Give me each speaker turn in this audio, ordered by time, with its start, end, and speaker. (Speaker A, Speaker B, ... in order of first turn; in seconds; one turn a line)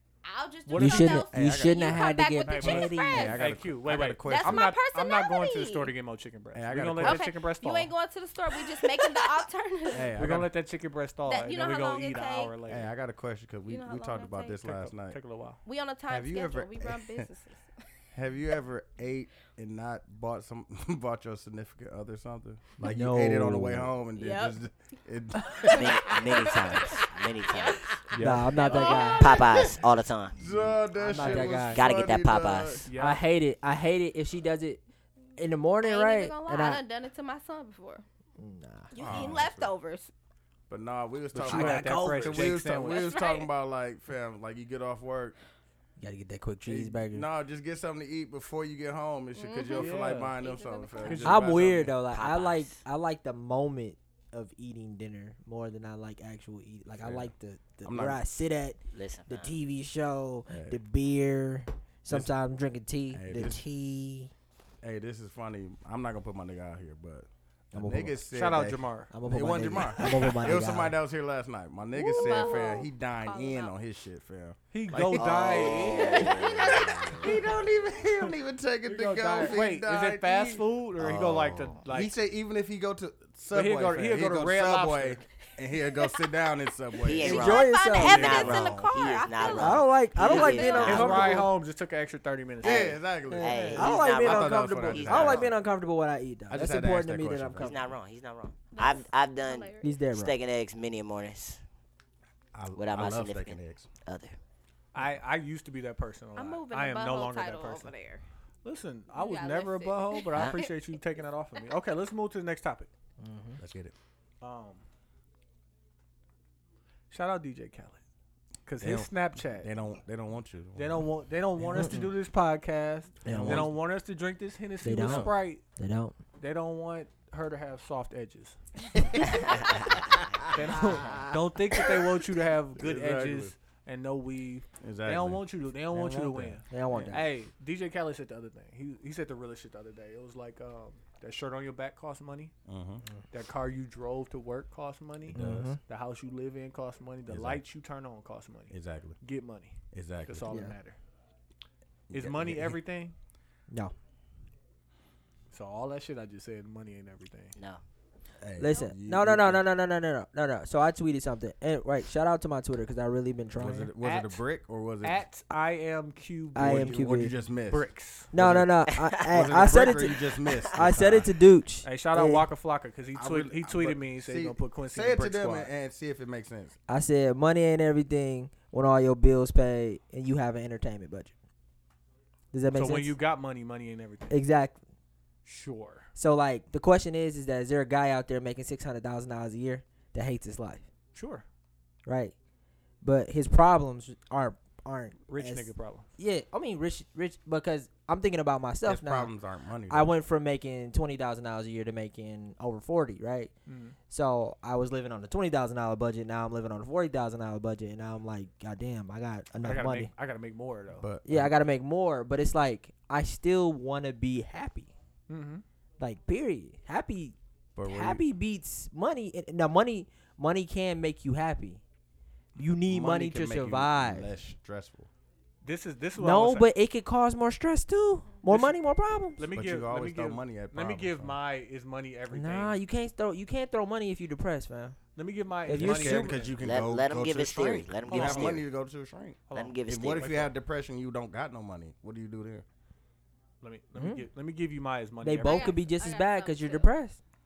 Speaker A: 0.2-3.4
Speaker B: 0.7-1.3
Speaker C: 0.8-3.4
Speaker D: 1.3-2.0
Speaker B: 2.4-7.9
Speaker D: 3.1-4.7
Speaker A: 4.2-5.9
Speaker D: 6.5-7.3
Speaker A: 7.0-10.2
Speaker D: 9.9-10.5
Speaker B: 10.2-12.9
Speaker A: 11.3-12.5
Speaker D: 12.7-15.2
Speaker A: 13.7-14.6
Speaker B: 14.6-15.6
Speaker A: 15.6-17.6
Speaker D: 16.1-17.3
Speaker D: 18.1-26.1
Speaker C: 22.8-23.9
Speaker A: 24.1-24.6
Speaker A: 25.4-29.7
Speaker E: 25.6-28.0
Speaker B: 28.1-28.6
Speaker C: 28.1-29.4
Speaker D: 28.7-29.7
Speaker E: 28.8-30.4
Speaker D: 30.4-32.9
Speaker C: 30.9-31.9
Speaker B: 31.2-31.6
Speaker E: 31.3-32.9
Speaker B: 32.9-33.2
Speaker C: 32.9-34.8
Speaker C: 35.4-36.8
Speaker A: 35.8-38.0
Speaker C: 38.4-39.4
Speaker A: 38.9-40.1
Speaker D: 39.0-39.7
Speaker D: 40.7-45.4
Speaker B: 41.3-43.1
Speaker C: 41.4-42.6
Speaker A: 42.8-43.5
Speaker C: 46.0-47.3
Speaker D: 46.6-52.0
Speaker A: 49.3-51.3
Speaker B: 49.7-50.4
Speaker B: 51.0-51.9
Speaker C: 51.2-64.3
Speaker E: 52.1-52.8
Speaker D: 57.0-57.3
Speaker D: 57.8-58.2
Speaker E: 58.9-59.5
Speaker D: 60.5-60.8
Speaker D: 62.1-62.3
Speaker D: 63.1-63.6
Speaker D: 64.8-87.5
Speaker C: 67.7-68.2
Speaker B: 68.3-69.1
Speaker C: 69.1-71.0
Speaker A: 71.9-73.8
Speaker B: 74.7-76.5
Speaker E: 75.1-77.3
Speaker A: 75.9-77.0
Speaker B: 78.8-82.1
Speaker B: 83.5-85.2
Speaker A: 85.9-86.2
Speaker E: 87.0-91.4
Speaker A: 87.2-91.5
Speaker C: 87.2-88.5
Speaker B: 88.2-88.7
Speaker C: 89.4-91.5
Speaker B: 90.2-94.0
Speaker D: 92.6-95.5
Speaker E: 92.6-95.5
Speaker C: 93.3-97.9
Speaker D: 96.5-97.9
Speaker E: 97.6-101.6
Speaker A: 98.7-99.9
Speaker C: 99.8-100.4
Speaker D: 102.5-103.9
Speaker E: 102.7-104.4
Speaker B: 104.9-107.9
Speaker A: 106.4-108.2
Speaker B: 108.6-112.9
Speaker A: 109.1-110.7
Speaker C: 113.2-113.6
Speaker D: 113.6-113.9
Speaker B: 114.4-114.8
Speaker B: 117.1-118.0
Speaker B: 118.6-119.7
Speaker D: 118.8-121.1
Speaker B: 120.8-125.6
Speaker C: 121.7-122.1
Speaker C: 123.2-123.7
Speaker D: 123.2-123.7
Speaker C: 124.8-126.2
Speaker D: 125.0-125.3
Speaker B: 126.4-128.6
Speaker E: 129.4-130.0
Speaker B: 130.5-142.5
Speaker D: 131.0-131.3
Speaker D: 132.8-133.5
Speaker D: 134.8-137.1
Speaker C: 136.7-137.3
Speaker D: 142.7-143.0
Speaker B: 143.3-151.0
Speaker D: 145.3-145.8
Speaker C: 145.3-145.8
Speaker D: 147.3-147.6
Speaker D: 148.7-149.2
Speaker D: 149.9-150.6
Speaker C: 150.5-150.7
Speaker D: 152.1-152.8
Speaker B: 152.1-153.1
Speaker B: 155.5-157.6
Speaker D: 158.4-159.6
Speaker C: 158.6-163.9
Speaker D: 163.5-165.2
Speaker B: 164.0-164.4
Speaker B: 165.0-168.3
Speaker C: 166.6-167.3
Speaker D: 166.6-171.3
Speaker C: 168.3-172.5
Speaker E: 168.9-169.6
Speaker B: 171.8-175.7
Speaker D: 173.1-176.8
Speaker C: 176.9-181.3
Speaker C: 182.5-183.2
Speaker B: 182.7-184.4
Speaker C: 184.3-184.8
Speaker B: 185.4-186.1
Speaker C: 186.1-190.9
Speaker B: 191.1-191.4
Speaker C: 192.1-192.3
Speaker C: 193.0-199.3
Speaker B: 195.3-196.1
Speaker D: 198.8-200.1
Speaker C: 199.9-203.5
Speaker B: 203.7-204.0
Speaker C: 204.1-210.1
Speaker B: 209.6-211.1
Speaker D: 210.9-211.6
Speaker C: 211.2-214.9
Speaker B: 215.3-215.6
Speaker C: 216.0-221.8
Speaker D: 217.8-218.2
Speaker C: 222.6-224.3
Speaker D: 222.8-225.1
Speaker B: 225.6-226.7
Speaker C: 226.2-229.4
Speaker B: 228.4-228.8
Speaker B: 229.4-232.8
Speaker D: 229.4-231.4
Speaker C: 232.3-235.0
Speaker B: 235.2-236.6
Speaker C: 235.6-236.5
Speaker D: 235.7-242.6
Speaker E: 236.6-238.6
Speaker B: 238.1-238.5
Speaker B: 239.5-240.5
Speaker E: 239.5-240.4
Speaker B: 243.6-245.7
Speaker C: 243.9-244.3
Speaker C: 245.2-247.2
Speaker A: 245.4-246.9